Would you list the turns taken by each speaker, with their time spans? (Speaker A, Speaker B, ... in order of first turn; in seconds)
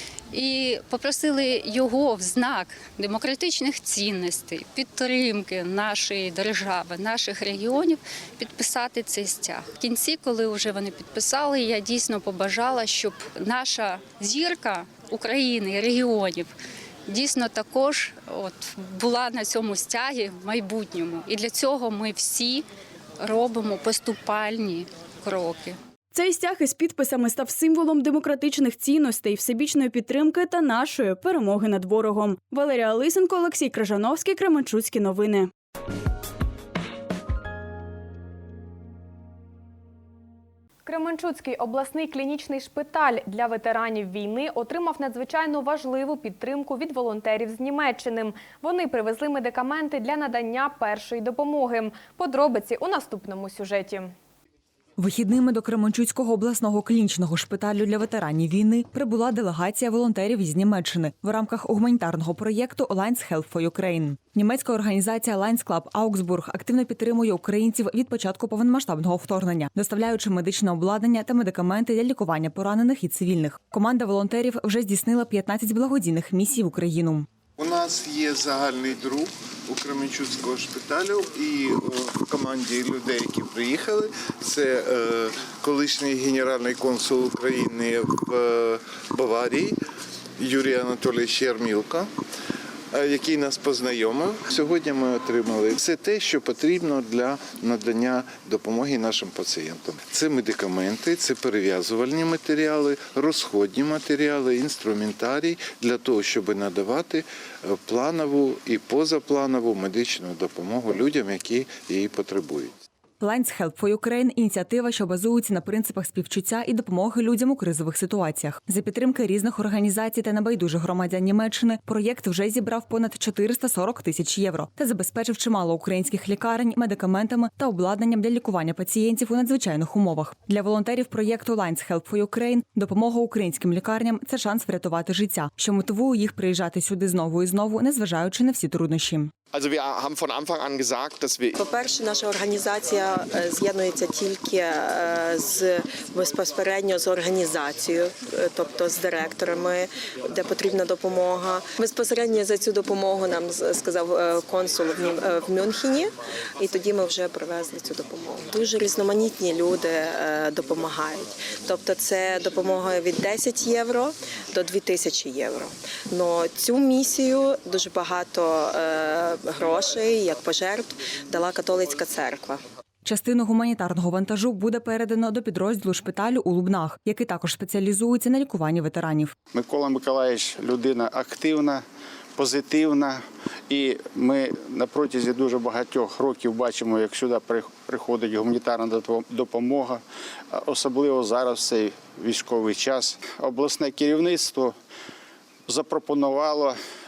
Speaker A: 0.3-16.5, 17.1-22.7, 23.2-25.8
Speaker B: 26.1-35.5
Speaker C: 40.9-54.1
Speaker D: 55.0-77.3, 113.2-139.3, 173.1-179.4
Speaker E: 77.6-89.8, 90.4-92.1, 92.9-112.7
Speaker F: 139.5-141.6, 179.5-194.8, 195.7-196.8
Speaker G: 141.6-172.6